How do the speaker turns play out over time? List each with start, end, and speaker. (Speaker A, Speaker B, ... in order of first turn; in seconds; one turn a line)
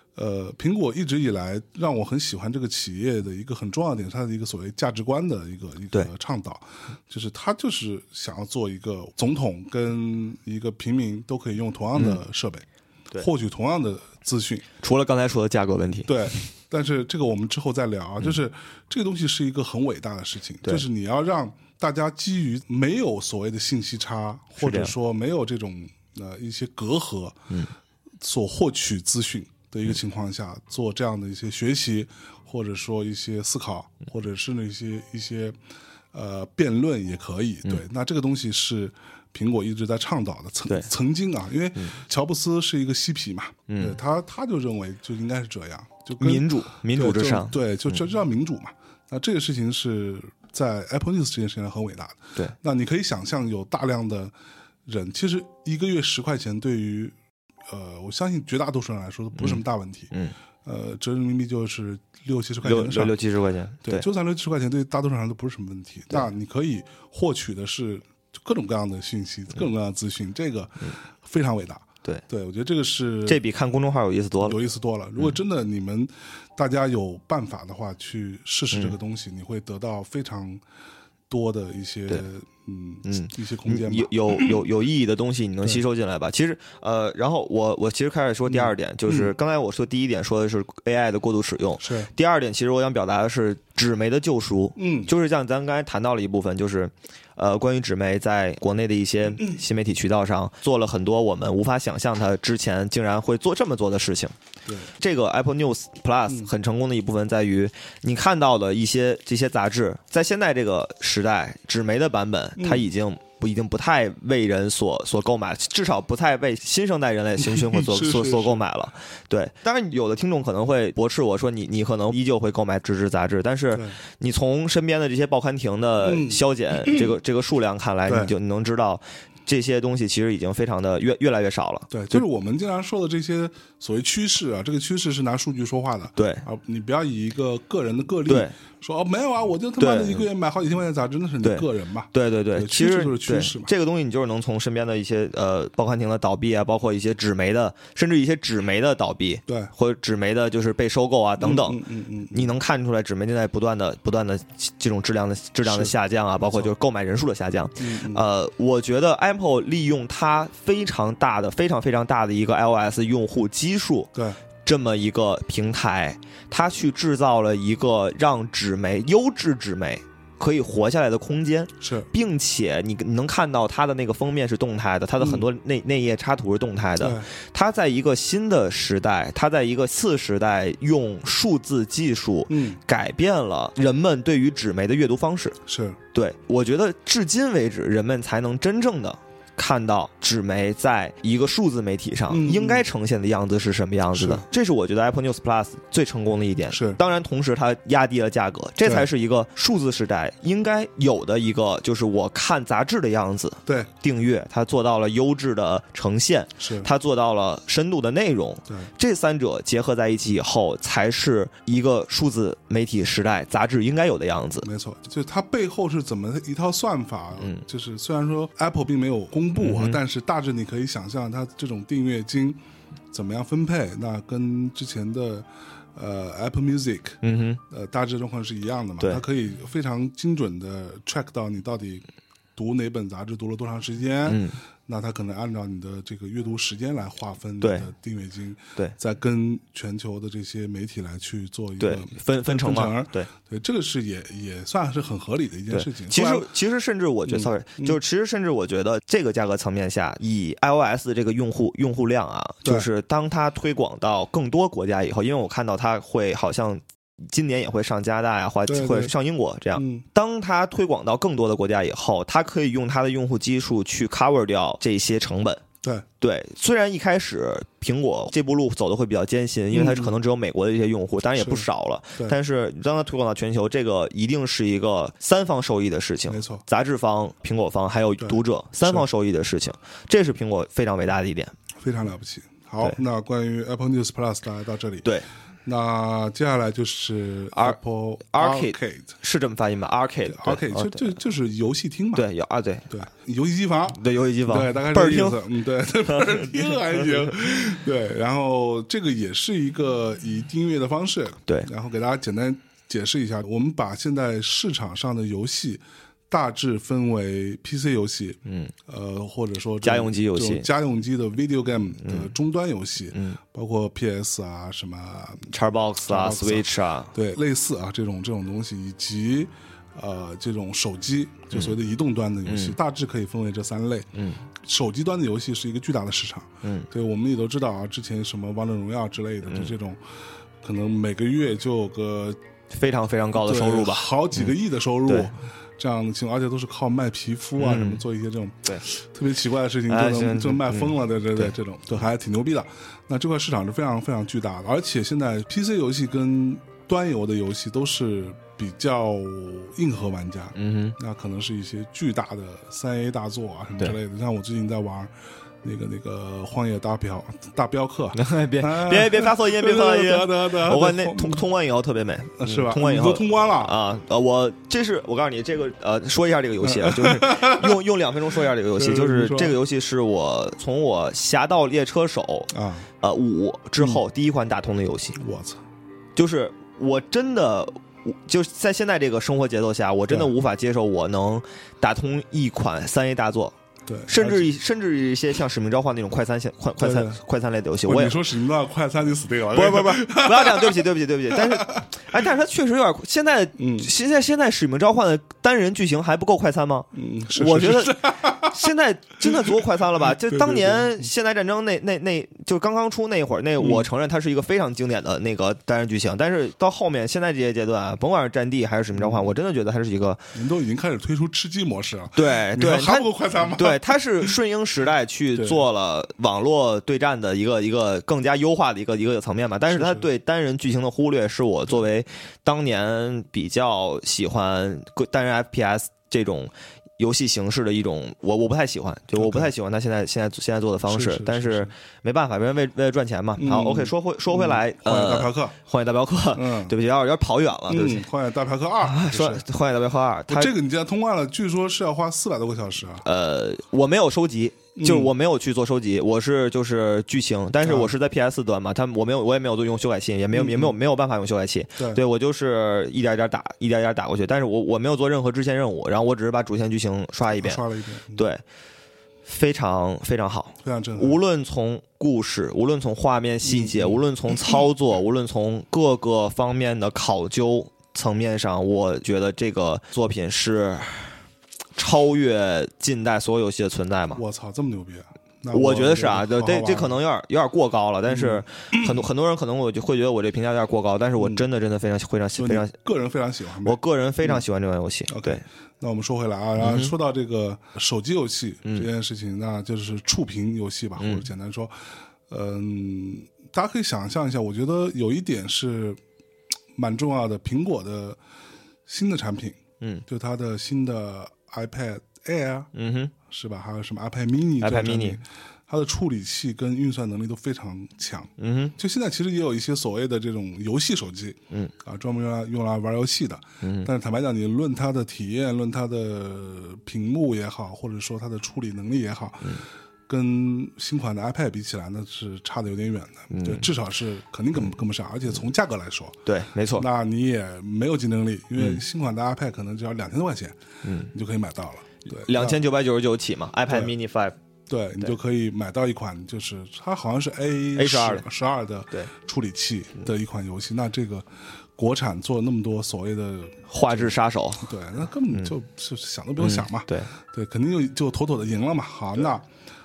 Speaker A: 0.1-14.6
Speaker B: 11.9-12.2
Speaker B: 14.8-16.4
Speaker A: 16.1-27.5
Speaker B: 24.6-24.9
Speaker A: 28.2-35.6
Speaker A: 36.1-54.3
Speaker B: 43.7-44.0
Speaker B: 46.2-48.0
Speaker A: 54.9-57.1
Speaker A: 57.7-60.1
Speaker B: 59.4-60.3
Speaker A: 60.6-63.1
Speaker B: 62.6-64.0
Speaker A: 63.8-73.4
Speaker B: 73.2-74.6
Speaker A: 74.4-80.6
Speaker A: 81.3-84.6
Speaker B: 83.0-104.3
Speaker A: 88.5-89.3
Speaker A: 91.8-92.1
Speaker A: 94.8-95.1
Speaker A: 99.3-99.6
Speaker B: 105.0-132.2
Speaker A: 112.5-112.8
Speaker A: 117.4-118.6
Speaker A: 126.0-127.1
Speaker A: 128.1-128.3
Speaker A: 131.9-143.7
Speaker B: 136.2-136.4
Speaker B: 138.3-138.5
Speaker B: 139.8-140.2
Speaker B: 141.4-151.8
Speaker A: 149.5-149.7
Speaker A: 151.4-152.5
Speaker B: 152.3-164.1
Speaker A: 155.6-155.9
Speaker A: 157.8-158.2
Speaker A: 164.1-164.4
Speaker B: 164.6-185.6
Speaker A: 171.8-172.1
Speaker A: 175.2-175.4
Speaker A: 177.0-177.3
Speaker A: 182.5-182.8
Speaker A: 185.7-186.0
Speaker B: 186.1-214.7
Speaker A: 192.3-192.8
Speaker A: 194.1-194.4
Speaker A: 196.7-197.0
Speaker A: 198.8-199.1
Speaker A: 206.6-206.9
Speaker A: 214.6-222.6
Speaker B: 219.6-220.0
Speaker A: 223.1-227.2
Speaker B: 227.2-227.6
Speaker A: 227.7-232.0
Speaker A: 232.6-246.5
Speaker B: 234.2-234.6
Speaker B: 237.6-237.9
Speaker B: 241.8-243.3
Speaker B: 245.7-265.6
Speaker A: 247.2-248.0
Speaker A: 258.6-259.1
Speaker A: 259.7-260.0
Speaker B: 266.2-281.5
Speaker A: 269.7-270.1
Speaker A: 271.4-272.4
Speaker A: 276.3-276.6
Speaker A: 278.2-279.1
Speaker A: 281.8-285.1
Speaker A: 285.6-289.1
Speaker B: 287.5-287.8
Speaker B: 288.3-291.2
Speaker A: 290.3-292.3
Speaker B: 292.1-292.9
Speaker A: 292.9-315.5
Speaker B: 293.9-295.4
Speaker B: 296.1-296.5
Speaker B: 308.4-308.7
Speaker B: 309.8-310.7
Speaker B: 312.0-312.3
Speaker B: 313.1-313.4
Speaker B: 315.5-317.1
Speaker A: 316.1-324.1
Speaker B: 322.4-322.8
Speaker B: 324.1-324.4
Speaker A: 324.6-330.0
Speaker A: 330.6-332.4
Speaker B: 332.7-335.3
Speaker A: 333.4-355.1
Speaker B: 337.6-338.0
Speaker B: 339.9-341.5
Speaker B: 350.5-350.9
Speaker A: 355.6-361.4
Speaker B: 358.1-372.5
Speaker A: 362.4-363.7
Speaker A: 366.6-367.8
Speaker A: 368.7-369.6
Speaker A: 372.5-372.9
Speaker B: 373.0-375.2
Speaker A: 375.2-375.6
Speaker B: 376.1-383.5
Speaker A: 383.9-384.5
Speaker B: 384.1-388.2
Speaker A: 386.8-387.2
Speaker A: 387.9-391.9
Speaker B: 389.5-410.2
Speaker A: 393.6-393.9
Speaker A: 396.9-398.6
Speaker A: 399.2-401.1
Speaker A: 403.6-403.9
Speaker A: 408.9-409.2
Speaker A: 410.3-414.3
Speaker B: 412.1-438.0
Speaker A: 415.3-415.6
Speaker A: 419.7-420.1
Speaker A: 429.1-429.5
Speaker A: 430.9-431.7
Speaker A: 433.4-435.5
Speaker A: 436.3-436.7
Speaker A: 437.7-439.4
Speaker B: 438.8-440.5
Speaker A: 440.3-443.0
Speaker B: 443.0-457.6
Speaker A: 444.8-445.1
Speaker A: 447.6-447.9
Speaker A: 450.3-450.8
Speaker A: 457.3-458.2
Speaker B: 458.1-458.4
Speaker B: 459.3-471.1
Speaker A: 460.6-461.2
Speaker A: 463.4-464.5
Speaker B: 471.8-474.2
Speaker A: 474.1-476.9
Speaker B: 475.5-482.7
Speaker A: 478.1-479.1
Speaker A: 481.2-481.4
Speaker A: 482.4-484.4
Speaker B: 483.6-485.4
Speaker A: 485.1-496.0
Speaker B: 486.6-486.9
Speaker B: 491.0-491.3
Speaker A: 496.7-498.2
Speaker A: 498.9-502.7
Speaker B: 502.7-503.1
Speaker A: 503.3-526.2
Speaker B: 504.6-505.2
Speaker B: 508.4-508.7
Speaker B: 513.6-513.9
Speaker B: 523.3-523.7
Speaker B: 526.2-526.8
Speaker A: 526.7-530.6
Speaker B: 530.8-531.1
Speaker A: 531.1-532.6
Speaker B: 532.0-534.4
Speaker A: 534.7-549.5
Speaker B: 537.8-538.2
Speaker B: 543.7-544.7
Speaker B: 546.4-547.1